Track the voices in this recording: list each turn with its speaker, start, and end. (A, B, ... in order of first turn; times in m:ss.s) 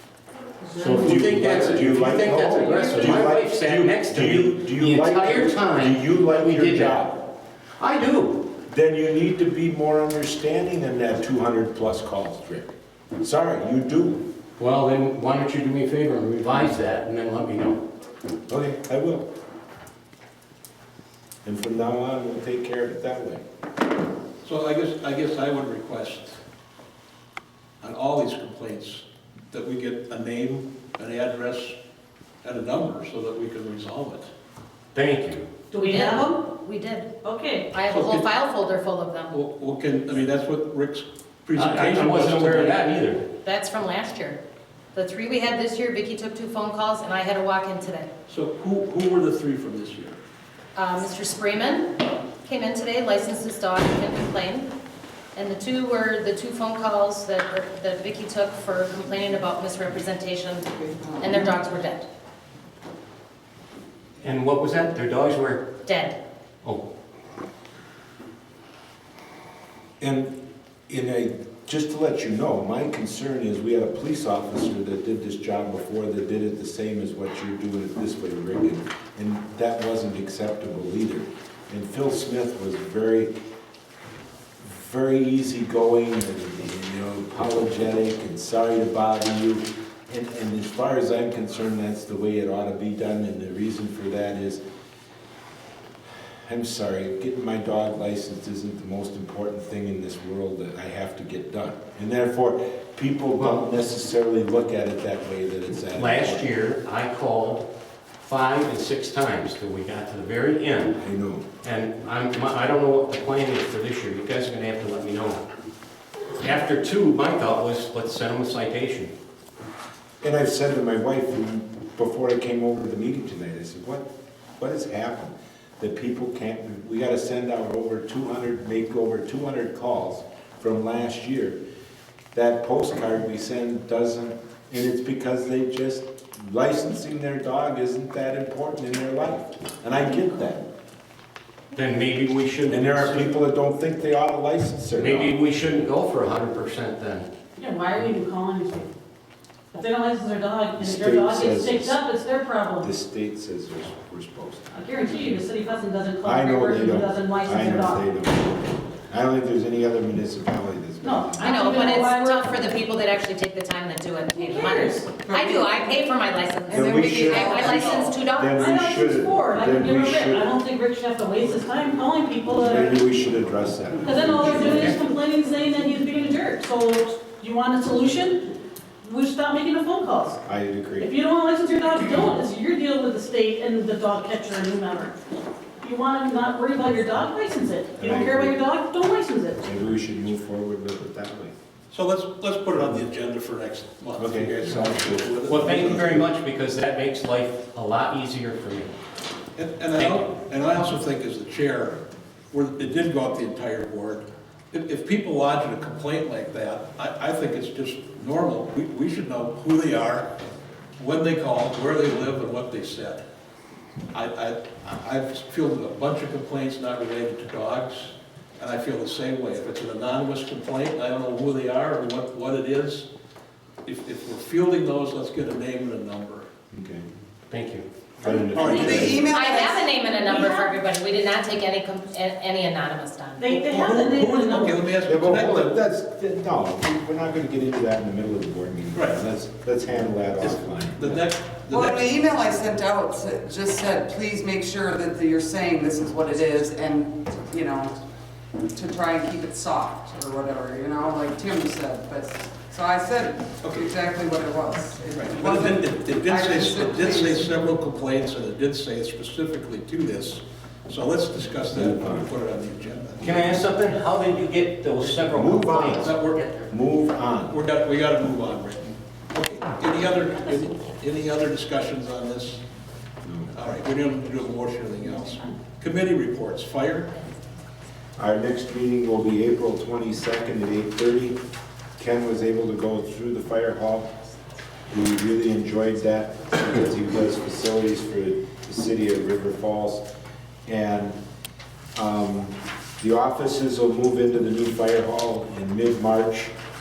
0:00.6-0:01.3 A
0:00.8-0:07.0 B
0:00.9-0:07.2 C
0:02.6-0:03.1 A
0:07.8-0:08.4 B
0:08.7-0:14.2 C
0:14.6-0:17.8 B
0:18.5-0:19.3 C
0:21.4-0:23.4 C
0:24.4-0:26.4 D
0:27.8-0:31.8 D
0:32.4-0:34.3 D
0:34.9-0:35.5 B
0:35.7-0:36.4 A
0:35.8-0:37.2 E
0:37.2-0:37.7 A
0:37.7-0:39.3 E
0:37.9-0:38.2 D
0:39.3-0:42.9 D
0:41.5-0:43.2 B
0:43.4-0:44.4 E
0:44.9-0:48.1 E
0:48.3-0:50.2 D
0:50.8-0:54.7 E
0:55.3-1:02.0 E
1:00.9-1:01.6 F
1:04.2-1:05.6 B
1:05.8-1:06.2 E
1:10.0-1:23.3 C
1:24.6-1:34.6 C
1:36.4-1:46.5 C
1:45.9-1:47.7 B
1:48.2-1:51.0 B
1:51.0-1:51.4 C
1:51.6-1:55.4 B
1:56.4-1:59.1 B
2:00.2-2:04.1 C
2:04.6-2:11.6 C
2:12.3-2:20.6 C
2:21.7-2:23.3 B
2:22.7-2:25.4 C
2:24.9-2:27.3 B
2:27.6-2:28.9 A
2:29.7-2:32.9 A
2:30.8-2:32.0 C
2:32.8-2:34.7 C
2:34.7-2:38.0 A
2:36.2-2:41.9 C
2:41.0-2:42.5 A
2:41.4-2:48.7 E
2:44.3-2:45.2 A
2:45.2-2:45.9 F
2:46.7-2:48.2 F
2:46.7-2:50.4 C
2:48.6-2:53.0 A
2:52.6-2:55.0 C
2:54.0-2:58.5 A
2:59.0-3:00.4 A
3:00.4-3:01.1 C
3:01.0-3:05.2 A
3:05.8-3:09.6 A
3:08.0-3:08.6 C
3:09.6-3:11.5 C
3:11.9-3:16.2 D
3:14.2-3:16.3 C
3:15.5-3:18.9 B
3:19.6-3:30.3 D
3:20.0-3:20.2 B
3:31.0-3:33.2 D
3:34.1-3:43.1 D
3:43.8-3:46.5 D
3:46.7-3:47.0 C
3:47.5-3:47.8 B
3:48.2-3:49.2 D
3:48.2-3:49.3 C
3:48.6-3:49.0 A
3:48.7-3:49.9 F
3:49.3-3:53.4 E
3:50.0-3:50.7 A
3:53.4-3:54.8 A
3:53.5-3:55.7 D
3:55.0-4:01.2 C
3:58.9-3:59.2 D
4:00.4-4:02.7 D
4:01.7-4:08.0 F
4:08.7-4:17.7 F
4:13.6-4:13.9 D
4:15.1-4:23.6 D
4:21.7-4:22.3 C
4:23.2-4:26.7 B
4:25.2-4:27.6 C
4:26.0-4:26.4 D
4:27.5-4:32.6 D
4:30.1-4:30.8 A
4:33.2-4:33.5 C
4:33.5-4:37.1 D
4:38.2-4:41.4 C
4:42.0-4:44.1 C
4:44.9-4:50.0 C
4:50.6-4:51.2 C
4:51.9-4:56.5 C